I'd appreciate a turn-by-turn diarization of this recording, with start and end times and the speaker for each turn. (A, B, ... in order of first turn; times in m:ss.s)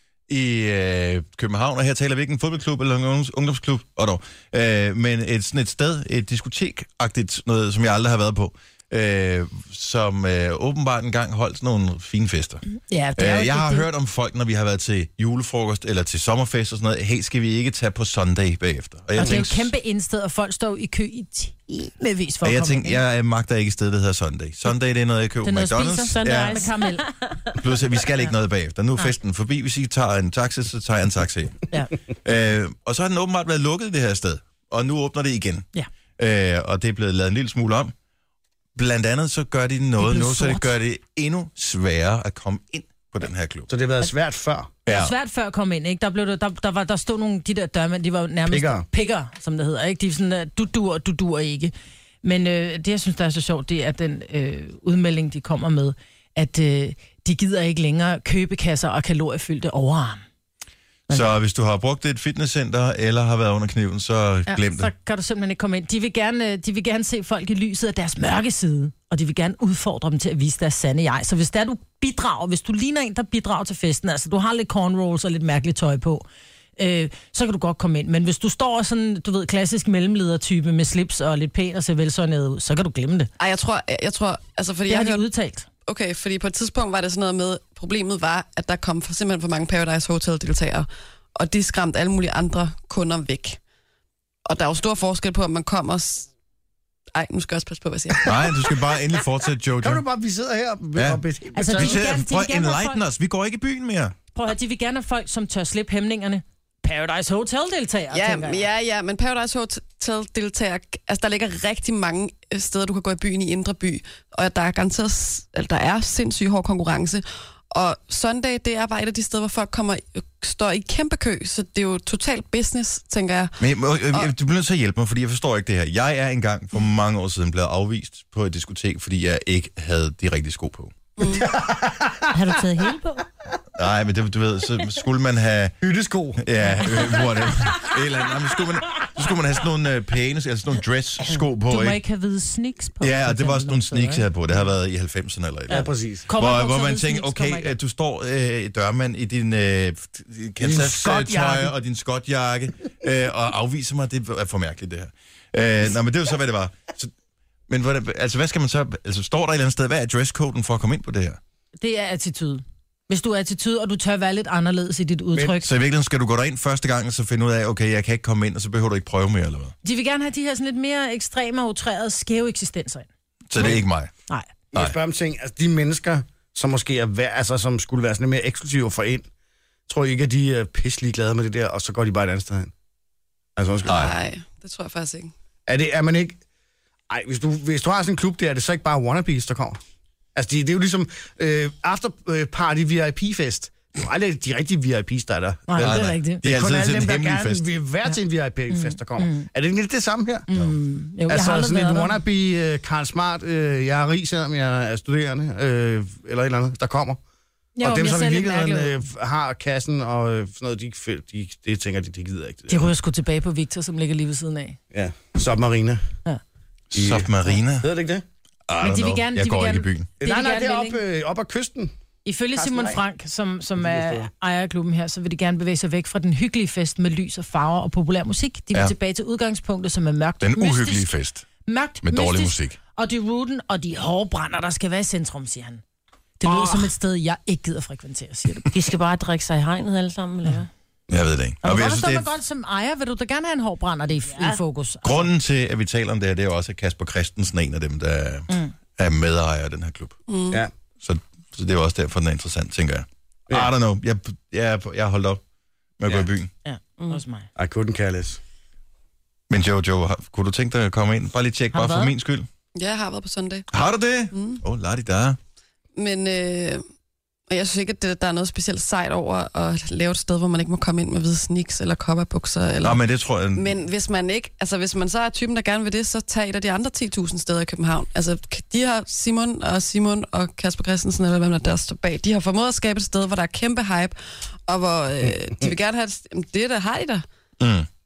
0:00.3-0:12.6 A
0:12.7-0:13.9 B
0:13.2-0:19.7 A
0:19.2-0:23.0 B
0:22.4-0:26.6 A
0:25.4-0:27.0 B
0:26.1-0:27.6 C
0:27.5-0:31.6 A
0:32.2-0:35.6 A
0:36.2-0:37.9 A
0:38.8-0:43.7 A
0:40.0-0:40.7 B
0:43.7-0:44.7 D
0:44.8-0:45.1 A
0:44.8-1:00.2 B
0:48.5-0:48.8 D
1:01.1-1:04.9 A
1:04.5-1:23.3 B
1:23.4-1:25.2 E
1:24.9-1:25.7 B
1:25.9-1:33.6 E
1:34.5-1:36.3 E
1:37.1-1:38.7 E
1:38.2-1:40.0 A
1:39.8-1:42.0 D
1:41.0-1:44.1 A
1:41.5-1:43.0 B
1:44.3-1:48.7 B
1:48.1-2:03.6 E
2:03.6-2:10.9 A
2:11.2-2:11.5 E
2:11.3-2:12.3 D
2:12.3-2:13.2 C
2:13.8-2:15.7 A
2:15.8-2:16.4 D
2:16.4-2:22.0 A
2:21.6-2:24.6 B
2:23.0-2:37.1 A
2:25.7-2:27.8 B
2:25.7-2:26.3 D
2:30.6-2:31.7 D
2:37.7-2:41.4 A
2:41.8-2:45.7 B
2:45.6-2:49.7 A
2:49.8-2:53.1 B
2:53.5-2:54.1 A
2:54.7-2:59.3 D
2:59.9-3:02.7 D
3:03.6-3:04.1 D
3:03.8-3:05.3 E
3:03.9-3:04.1 A
3:05.7-3:06.4 D
3:07.1-3:09.8 D
3:10.3-3:20.5 D
3:15.7-3:16.4 B
3:15.8-3:17.7 A
3:18.7-3:19.5 B
3:20.5-3:22.2 B
3:21.3-3:27.2 D
3:27.8-3:29.0 B
3:27.8-3:32.9 D
3:32.7-3:34.8 B
3:34.9-3:36.0 D
3:36.9-3:37.9 A
3:36.9-3:38.2 D
3:38.7-3:40.1 A
3:38.8-3:41.0 B
3:40.2-3:41.9 D
3:42.2-3:51.1 B
3:42.5-3:43.0 D
3:43.8-3:44.3 D
3:50.4-3:51.4 A
3:51.6-3:55.8 B
3:52.0-3:52.8 A
3:56.4-3:58.7 B
3:58.7-4:00.7 C
4:01.1-4:02.3 A
4:01.6-4:05.3 B
4:05.0-4:10.2 A
4:08.5-4:08.7 B
4:10.3-4:10.6 E
4:11.0-4:15.4 A
4:16.0-4:16.5 A
4:16.6-4:17.5 B
4:17.6-4:18.4 D
4:19.5-4:22.5 A
4:21.8-4:22.1 B
4:22.7-4:23.7 E
4:23.7-4:25.4 A
4:24.3-4:24.6 E
4:26.0-4:26.8 E
4:27.5-4:33.0 E
4:32.8-4:33.8 A
4:33.5-4:47.2 E
4:45.2-4:45.7 D
4:47.6-4:47.9 A